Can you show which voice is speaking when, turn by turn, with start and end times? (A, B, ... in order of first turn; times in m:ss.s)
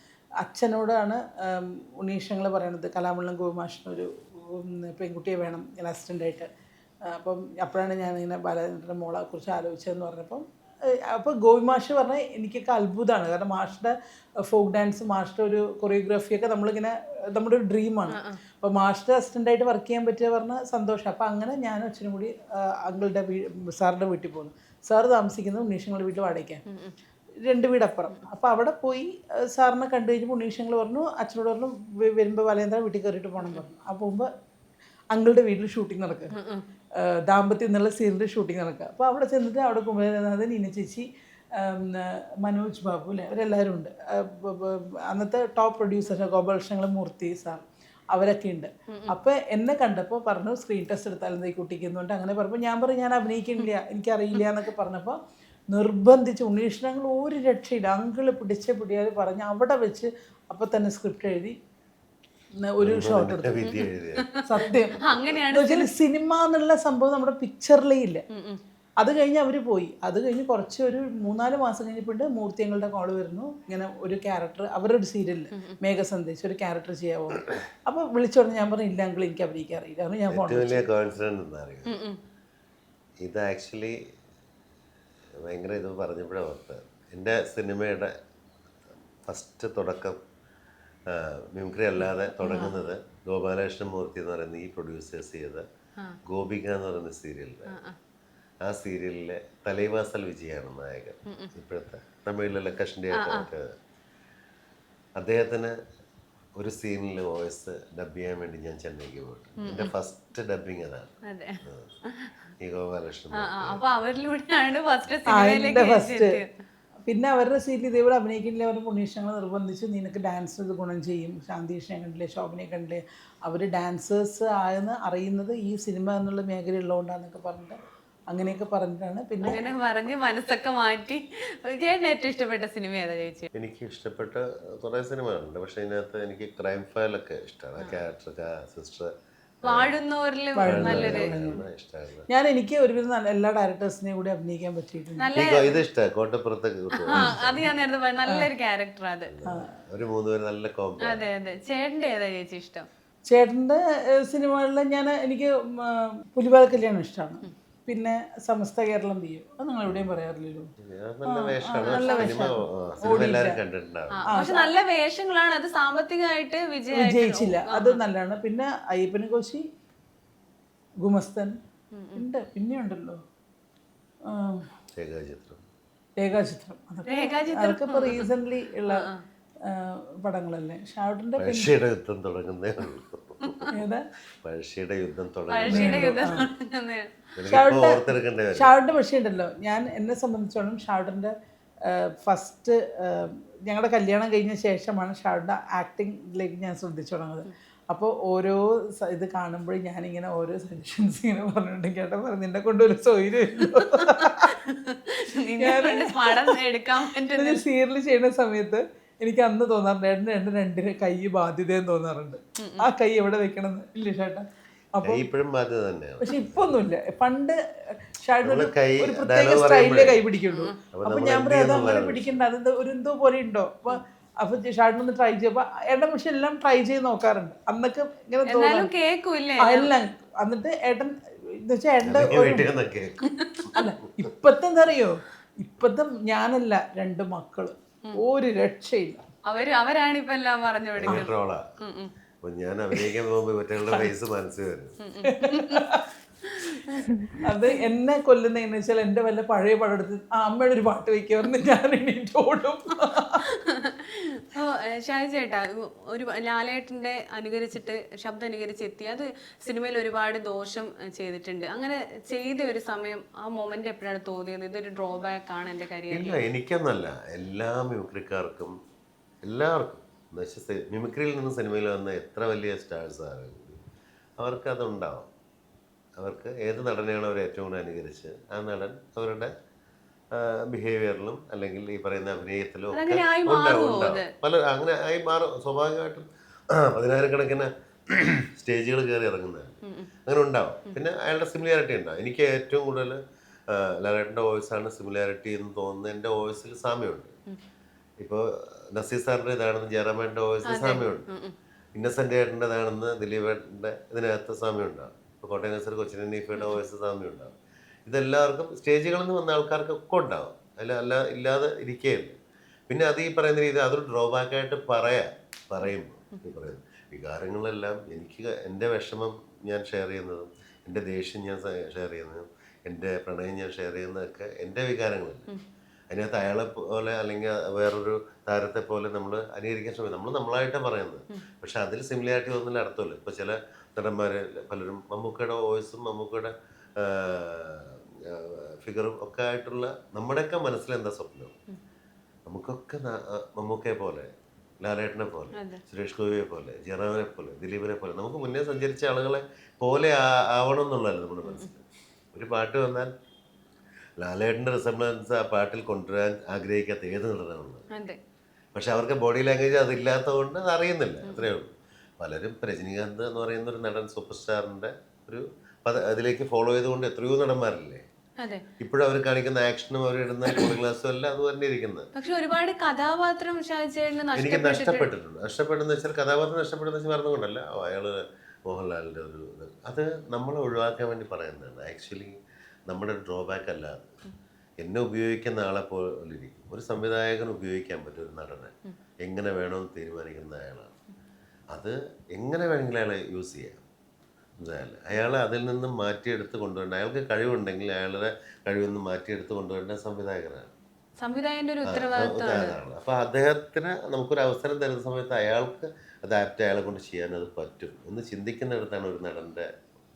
0:00.4-0:06.5 A
0:07.0-0:26.6 A
0:18.1-0:18.4 B
0:26.6-0:26.9 B
0:27.4-0:34.3 A
0:35.1-0:36.3 A
0:36.3-0:36.6 B
0:37.0-0:55.2 A
0:48.9-0:49.1 B
0:55.7-1:01.6 A
1:02.6-1:03.7 A
1:02.8-1:04.2 C
1:03.6-1:05.9 B
1:04.4-1:08.2 A
1:08.3-1:08.6 B
1:09.0-1:20.9 A
1:20.3-1:21.9 C
1:21.8-1:22.2 B
1:23.2-1:24.0 C
1:25.4-1:28.1 C
1:29.2-1:30.2 C
1:31.1-1:35.6 C
1:32.4-1:32.7 B
1:36.2-1:37.8 C
1:37.7-1:38.0 B
1:38.6-1:43.7 C
1:41.3-1:41.5 B
1:43.1-1:43.5 B
1:45.2-1:45.7 C
1:46.6-1:51.9 C
1:49.6-1:49.9 B
1:51.3-1:52.5 B
1:52.6-1:53.8 C
1:53.4-1:56.5 B
1:55.3-1:56.4 A
1:57.0-2:07.8 A
2:08.3-2:09.6 A
2:09.4-2:13.5 B
2:13.5-2:19.1 C
2:19.6-2:20.0 C
2:19.6-2:21.3 B
2:20.6-2:21.6 A
2:20.6-2:22.3 C
2:22.3-2:25.3 A
2:25.2-2:25.8 B
2:25.3-2:27.7 C
2:26.9-2:29.3 B
2:29.3-2:31.2 C
2:31.0-2:32.9 B
2:33.3-2:40.7 A
2:40.8-2:44.3 C
2:41.2-2:43.6 A
2:41.8-2:42.3 B
2:44.1-2:48.0 B
2:44.3-2:44.7 A
2:46.9-2:49.6 A
2:51.0-2:51.6 A
2:51.9-2:52.2 B
2:52.1-2:53.2 A
2:54.2-2:54.6 A
2:55.0-2:55.6 C
2:56.2-2:59.1 A
2:57.1-2:58.3 B
2:58.9-2:59.2 B
2:59.6-3:01.7 A
3:01.4-3:03.7 C
3:03.7-3:04.1 A
3:04.4-3:06.3 C
3:05.5-3:07.2 B
3:05.7-3:06.4 A
3:07.4-3:08.7 C
3:07.5-3:11.3 A
3:11.8-3:24.6 A
3:23.7-3:27.6 B
3:25.6-3:26.6 A
3:27.4-3:35.2 A
3:32.6-3:32.9 B
3:35.0-3:36.6 C
3:36.2-3:48.9 A
3:38.4-3:40.2 C
3:40.9-3:42.3 C
3:48.4-3:49.9 B
3:49.6-3:52.7 A
3:52.0-3:53.8 C
3:53.2-3:53.8 B
3:53.7-3:59.2 A
3:59.5-4:02.1 B
4:01.0-4:01.6 C
4:02.4-4:05.0 C
4:05.0-4:05.8 B
4:05.2-4:06.1 A
4:06.4-4:07.8 B
4:07.4-4:13.5 A
4:13.4-4:26.4 B
4:26.1-4:28.8 C
4:29.4-4:33.8 C
4:34.4-4:35.3 C
4:36.2-4:39.5 C
4:40.3-4:57.3 C
4:42.9-4:44.3 B
4:58.2-5:01.3 C
5:00.6-5:01.5 B
5:01.9-5:07.5 C
5:06.5-5:06.8 B
5:08.0-5:12.3 C
5:12.9-5:25.5 C
5:26.1-5:41.5 C
5:42.5-5:44.3 C
5:44.8-5:53.1 C
5:45.6-5:45.8 B
5:54.2-5:57.8 C
5:57.9-5:58.2 B
5:58.7-6:08.0 C
6:01.2-6:01.5 B
6:08.4-6:08.6 B
6:08.8-6:12.1 C
6:12.1-6:15.1 B
6:14.3-6:22.4 C
6:22.9-6:24.1 C
6:24.8-6:30.9 C
6:31.7-6:33.8 C
6:34.6-6:40.7 C
6:41.2-6:42.8 B
6:41.8-6:49.7 C